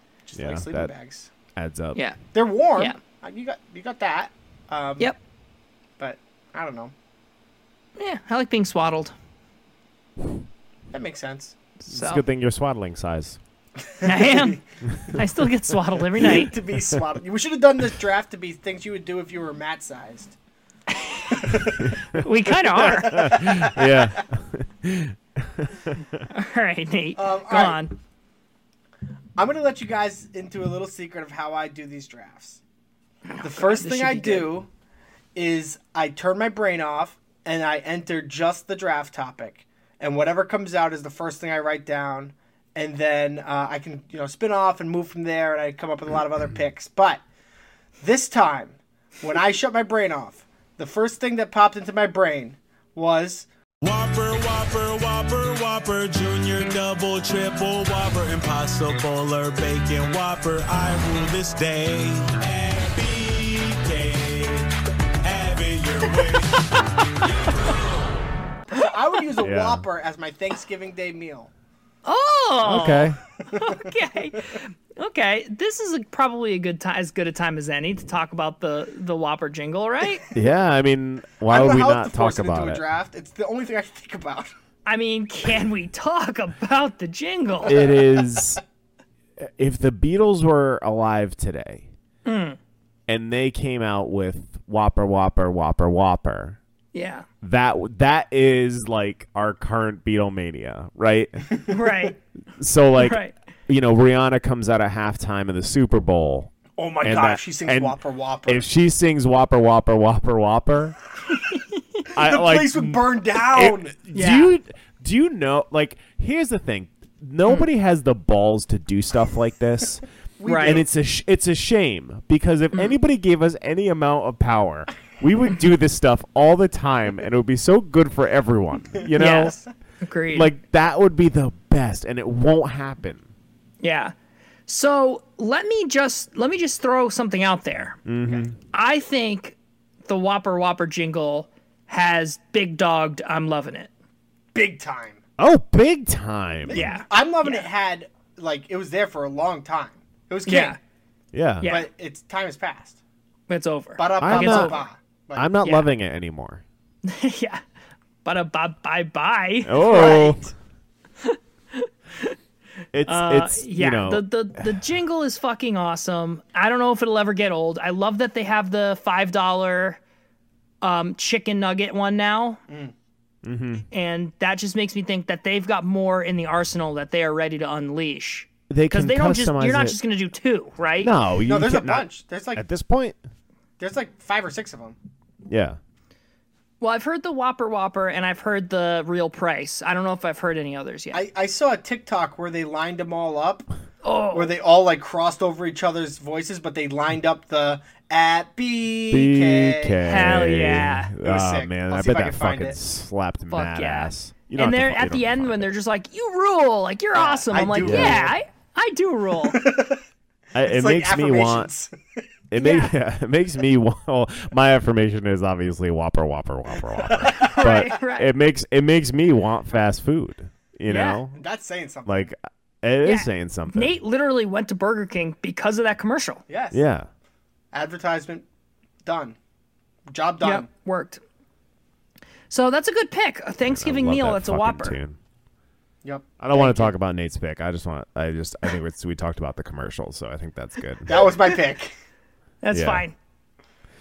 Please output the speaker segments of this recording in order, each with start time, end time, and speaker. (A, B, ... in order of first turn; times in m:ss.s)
0:00.2-0:01.3 A
0:00.3-0:00.9 B
0:01.5-0:02.0 B
0:02.3-0:05.1 A
0:06.0-0:06.9 A
0:08.0-0:09.1 C
0:10.9-0:11.6 A
0:11.8-0:13.4 B
0:11.9-0:12.2 C
0:14.0-0:14.6 A
0:14.0-0:14.6 C
0:15.1-0:16.6 C
0:16.2-0:20.4 A
0:20.9-0:21.6 C
0:21.3-0:22.0 A
0:22.1-0:23.4 C
0:22.7-0:24.1 A
0:22.8-0:26.2 B
0:26.3-0:27.9 C
0:27.2-0:27.8 A
0:29.4-0:32.6 A
0:33.3-0:34.5 C
0:33.4-0:34.7 A
0:35.3-0:47.2 A
0:48.0-0:53.5 A
0:53.8-1:04.7 D
1:05.2-1:07.8 D
1:08.7-1:11.5 A
1:09.4-1:09.8 B
1:12.0-1:20.2 C
1:12.6-1:13.2 B
1:13.5-1:13.8 A
1:20.3-1:22.8 B
1:21.5-1:24.5 A
1:24.8-1:27.8 C
1:27.6-1:28.6 B
1:29.4-1:31.8 B
1:32.2-1:32.6 C
1:33.1-1:36.6 B
1:36.9-1:37.2 C
1:37.4-1:41.5 B
1:41.7-1:42.2 C
1:42.6-1:48.0 B
1:43.0-1:43.3 C
1:46.7-1:48.7 A
1:48.5-1:51.0 B
1:51.4-1:52.0 C
1:52.1-2:00.0 B
1:52.2-1:54.0 A
1:54.1-1:54.5 C
2:00.4-2:00.9 A
2:00.4-2:00.8 C
2:00.6-2:09.6 B
2:09.1-2:10.5 C
2:09.2-2:09.6 A
2:10.3-2:13.2 B
2:13.8-2:14.1 C
2:14.7-2:18.0 C
2:18.0-2:18.6 B
2:18.7-2:23.9 C
2:24.5-2:25.2 A
2:25.4-2:26.9 B
2:26.7-2:30.8 A
2:26.7-2:27.7 C
2:30.4-2:30.8 C
2:31.3-2:31.7 B
2:31.6-2:31.9 C
2:31.6-2:33.0 A
2:33.5-2:34.8 C
2:34.0-2:35.5 A
2:34.2-2:34.8 B
2:35.3-2:36.6 B
2:35.6-2:35.9 C
2:37.0-2:37.6 C
2:38.2-2:40.3 C
2:39.6-2:40.5 B
2:39.8-2:40.5 A
2:41.2-2:42.3 C
2:42.9-2:44.8 B
2:43.0-2:50.0 C
2:50.8-2:52.6 C
2:52.7-2:52.9 A
2:53.4-2:53.8 B
2:53.9-3:01.1 C
2:58.7-3:00.0 B
3:01.0-3:03.2 B
3:01.4-3:02.6 A
3:03.8-3:05.0 A
3:05.5-3:05.8 B
3:06.8-3:11.2 C
3:11.1-3:13.7 A
3:14.0-3:14.5 C
3:14.3-3:20.1 A
3:19.1-3:25.7 B
3:20.0-3:21.1 C
3:21.2-3:22.8 A
3:23.5-3:29.6 C
3:27.2-3:28.3 A
3:27.8-3:28.3 B
3:29.5-3:30.0 A
3:30.5-3:31.7 B
3:30.6-3:31.9 A
3:32.5-3:41.4 B
3:32.6-3:32.9 C
3:37.2-3:37.9 A
3:37.3-3:38.3 C
3:40.9-3:41.2 C
3:41.3-3:42.3 A
3:42.0-3:44.0 B
3:43.0-3:46.4 C
3:46.5-3:46.8 A
3:46.7-3:47.1 B
3:47.7-3:48.4 A
3:49.0-3:49.4 A
3:50.1-3:50.7 A
3:50.4-3:51.2 C
3:52.5-3:55.0 C
3:53.6-3:55.2 B
3:56.0-3:56.9 A
3:56.4-4:01.3 B
4:01.0-4:01.9 A
4:02.6-4:03.1 C
4:02.7-4:03.0 B